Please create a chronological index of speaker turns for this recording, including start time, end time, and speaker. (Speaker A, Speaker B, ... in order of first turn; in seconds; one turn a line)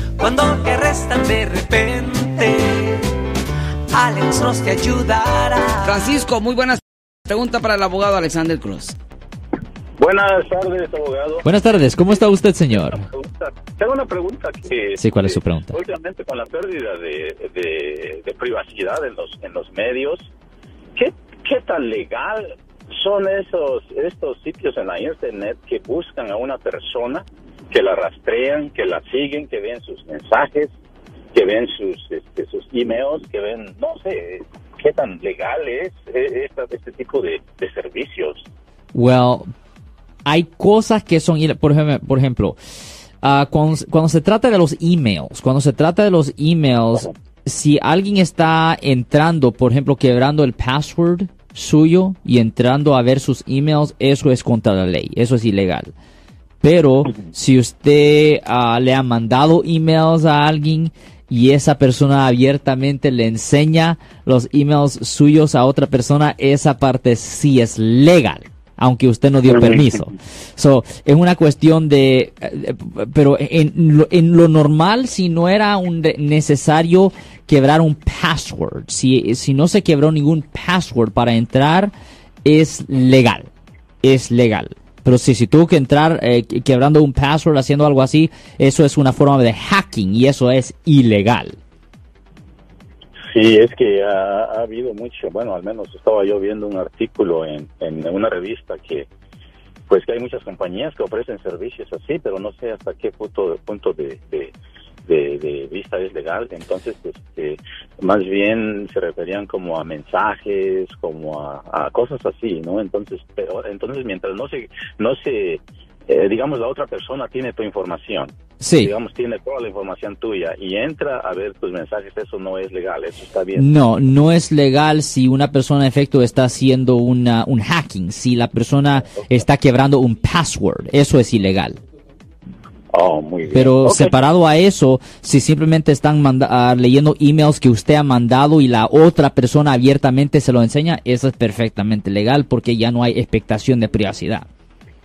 Speaker A: 0.2-3.1
Speaker A: 3.9-6.2
Speaker B: 5.8-8.9
Speaker C: 10.0-11.4
Speaker D: 11.4-13.1
Speaker C: 12.7-20.3
Speaker D: 15.0-15.8
Speaker C: 20.9-30.7
Speaker C: 31.3-38.5
Speaker D: 38.9-39.5
Speaker D: 40.2-42.6
Speaker D: 43.2-55.9
Speaker D: 56.6-83.5
Speaker D: 84.0-91.6
Speaker C: 93.3-99.1
Speaker C: 99.9-104.5
Speaker C: 105.1-123.7
Speaker D: 118.6-118.9
Speaker D: 123.5-131.8
Speaker C: 132.9-134.1
Speaker D: 133.5-144.5